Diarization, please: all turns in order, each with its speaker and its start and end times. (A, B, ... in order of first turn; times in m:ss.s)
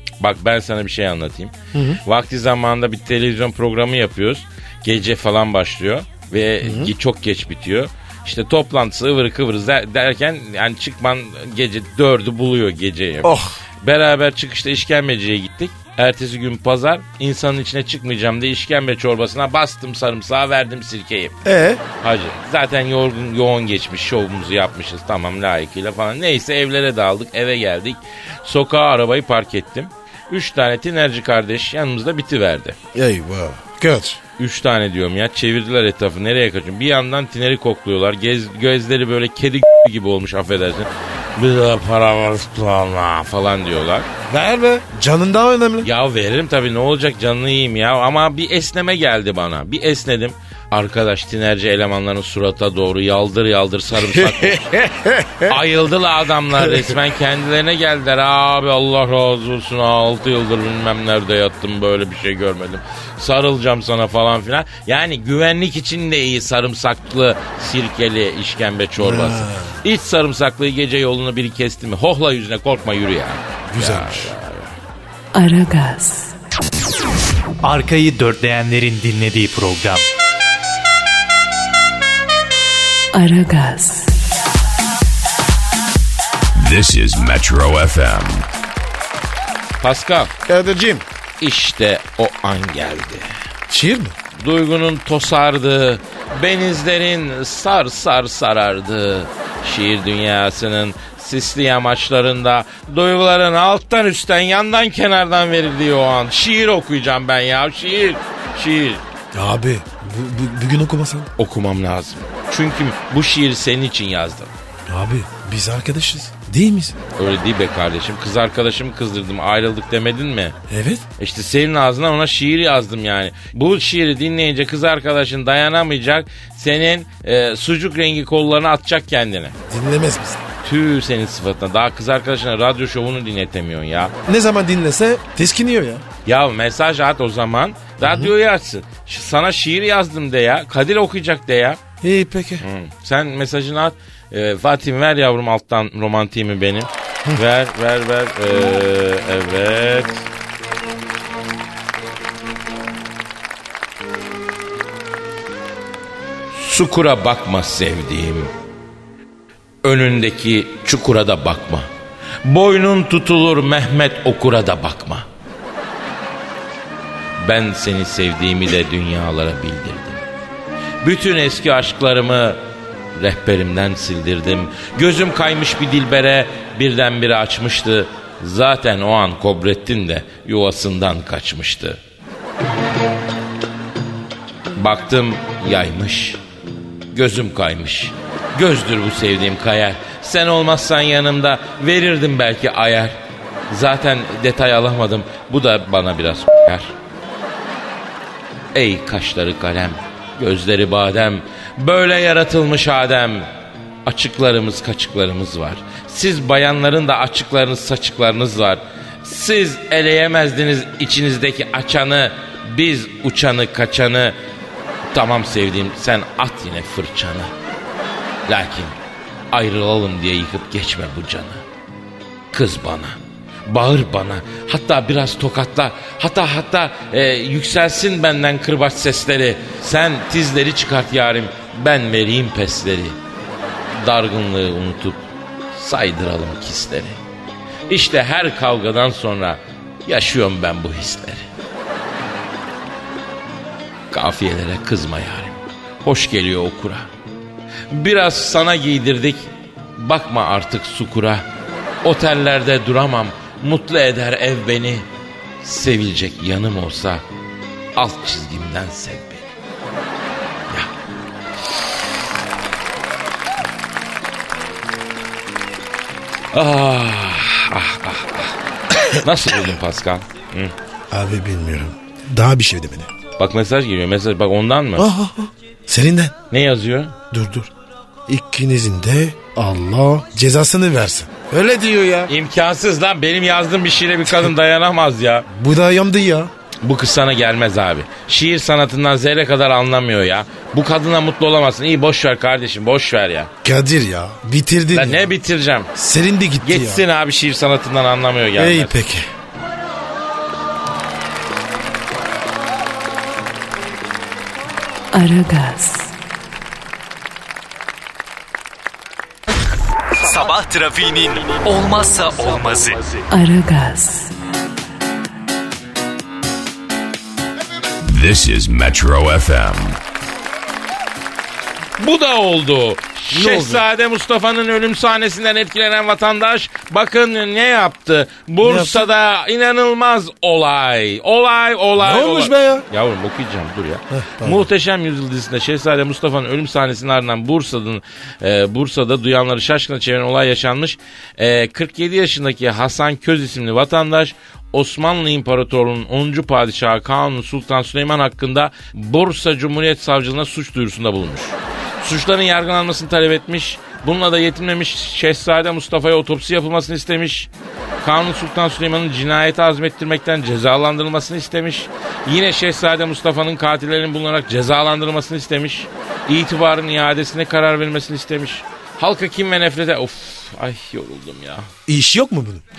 0:00.2-0:01.5 A
0:01.7-0:02.0 B
0:02.0-0:21.4 A
0:06.6-0:06.9 B
0:13.2-0:13.6 B
0:21.4-0:21.8 B
0:22.0-0:32.8 A
0:32.9-0:34.2 B
0:34.4-0:44.1 A
0:44.2-0:45.9 B
0:45.8-0:54.7 A
0:54.0-0:55.6 B
0:55.5-1:14.7 A
0:56.6-0:56.9 B
1:09.0-1:09.8 B
1:13.7-1:14.3 B
1:15.3-1:16.4 C
1:17.6-1:20.0 D
1:23.1-1:24.2 C
1:26.6-1:28.5 E
1:29.8-1:30.3 A
1:30.4-1:31.0 B
1:31.4-1:33.3 A
1:33.7-1:34.2 B
1:34.4-1:49.0 A
1:49.3-1:51.3 B
1:51.4-1:54.5 A
1:54.9-1:57.0 B
1:57.2-2:00.6 A
2:00.7-2:01.0 B
2:01.2-2:09.6 A
2:09.7-2:10.4 B
2:10.6-2:14.1 A
2:14.3-2:16.0 B
2:16.3-2:21.8 A
2:18.0-2:18.3 B
2:22.0-2:22.6 B
2:22.6-2:30.2 A
2:36.5-2:38.5 A
2:39.8-2:41.9 A
2:42.4-2:45.3 A
2:47.4-2:50.3 A
2:51.0-2:52.6 A
2:53.2-3:02.0 A
3:04.8-3:06.4 A
3:07.1-3:13.2 A
3:13.7-3:17.0 A
3:18.7-3:23.5 A
3:24.0-3:34.4 A
3:35.1-3:37.5 A
3:38.5-3:38.9 A
3:39.5-3:41.6 A
3:42.5-3:53.2 A
3:53.9-3:55.2 A
3:55.8-3:57.2 A
3:57.9-4:01.5 A
4:04.1-4:07.1 A
4:07.9-4:11.4 A
4:12.0-4:15.1 A
4:15.6-4:17.2 A
4:18.0-4:19.4 A
4:26.5-4:30.7 A
4:31.1-4:33.1 B
4:33.4-4:35.1 A
4:35.0-4:36.3 B
4:36.5-4:37.2 A
4:37.3-4:37.7 B
4:38.3-4:42.3 B
4:42.3-4:45.5 A
4:45.5-4:46.5 B
4:46.8-4:53.5 A
4:53.6-4:55.3 B
4:54.9-4:55.9 A
4:56.0-4:57.0 B
4:56.6-4:59.0 A
4:58.6-4:59.3 B
5:05.1-5:06.1 C
5:10.2-5:13.2 D
5:13.3-5:14.3 C
5:18.0-5:20.0 E
5:22.0-5:57.5 A
5:23.3-5:23.8 B
5:28.6-5:29.1 B
5:32.0-5:32.9 B
5:34.1-5:34.7 B
5:58.0-6:11.7 A
6:11.9-6:12.6 B